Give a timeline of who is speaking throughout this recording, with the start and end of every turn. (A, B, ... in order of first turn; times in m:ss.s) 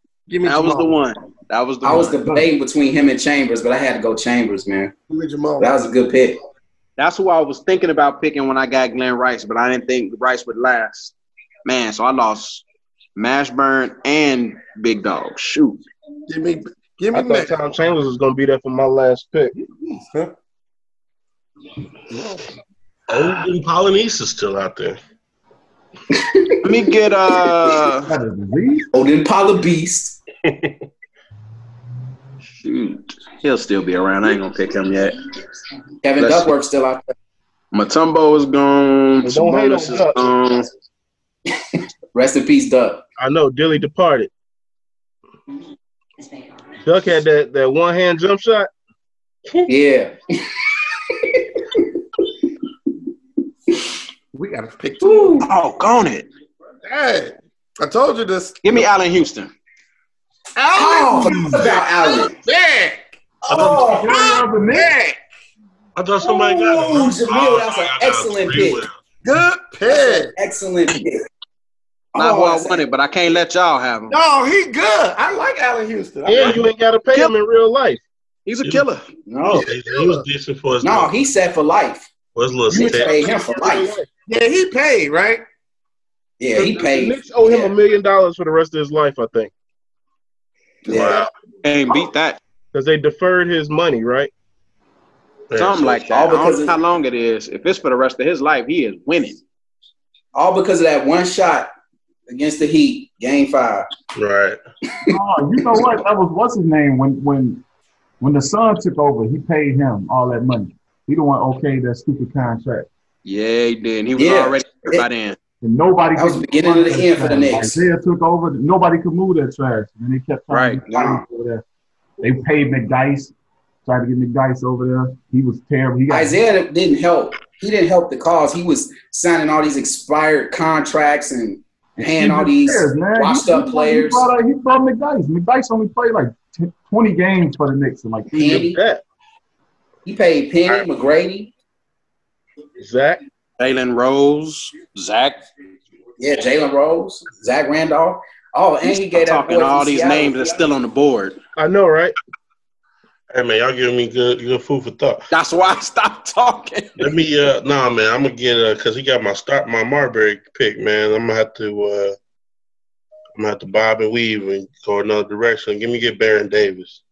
0:00.3-0:01.0 A
0:00.4-0:02.2 B
0:01.8-0:04.9 C
0:01.9-0:02.5 D
0:05.1-0:05.8 A
0:05.6-0:06.4 C
0:07.0-0:11.1 B
0:11.6-0:12.6 B
0:13.2-0:15.8 B
0:16.3-0:17.6 A
0:17.1-0:19.5 E
0:19.7-0:20.3 A
0:22.1-0:22.5 A
0:23.1-0:25.0 F
0:26.1-0:26.6 C
0:26.6-0:28.1 B
0:28.0-0:28.9 D
0:28.9-0:30.2 C
0:30.4-0:30.8 F
0:32.6-0:35.2 B
0:36.0-0:37.1 C
0:36.2-0:36.5 B
0:37.7-0:40.7 B
0:39.2-0:40.3 E
0:42.1-0:43.0 C
0:43.2-0:44.3 E
0:46.8-0:48.7 E
0:49.7-0:51.8 C
0:54.3-0:55.5 A
0:55.0-0:55.5 C
0:55.4-0:56.3 B
0:56.8-0:58.8 A
0:58.6-0:59.5 B
1:00.6-1:03.1 A
1:00.8-1:02.4 C
1:03.4-1:04.3 C
1:03.5-1:04.2 F
1:03.7-1:05.0 D
1:04.7-1:05.2 A
1:06.0-1:08.9 F
1:06.2-1:08.8 C
1:09.2-1:10.3 A
1:09.9-1:11.2 C
1:12.1-1:12.8 C
1:12.2-1:14.2 B
1:14.1-1:16.6 A
1:16.2-1:18.0 E
1:16.4-1:16.6 F
1:18.5-1:19.0 B
1:19.3-1:19.7 C
1:19.5-1:21.1 F
1:19.7-1:20.2 A
1:20.8-1:22.1 C
1:22.4-1:23.2 F
1:22.7-1:23.9 C
1:23.1-1:24.1 E
1:24.3-1:25.4 A
1:26.4-1:27.7 C
1:26.6-1:29.5 E
1:30.9-1:31.2 C
1:30.9-1:31.3 F
1:31.6-1:32.4 B
1:32.7-1:34.3 E
1:35.5-1:36.0 F
1:35.6-1:39.4 B
1:36.1-1:36.8 C
1:40.3-1:41.7 C
1:42.3-1:43.9 C
1:44.2-1:44.6 F
1:45.1-1:47.6 D
1:48.2-1:52.9 D
1:53.2-1:55.4 B
1:54.2-1:55.0 C
1:55.6-2:01.6 D
1:56.2-1:57.8 C
2:00.5-2:00.8 B
2:00.9-2:01.2 C
2:02.2-2:03.3 D
2:03.8-2:06.4 D
2:06.1-2:14.3 C
2:12.0-2:18.6 D
2:18.3-2:18.8 C
2:18.4-2:19.0 E
2:20.0-2:21.5 C
2:22.8-2:23.2 E
2:23.6-2:25.4 B
2:26.2-2:30.5 C
2:28.8-2:31.4 B
2:31.6-2:32.2 E
2:33.3-2:35.2 F
2:35.3-2:37.1 B
2:37.0-2:42.2 F
2:43.4-2:47.0 F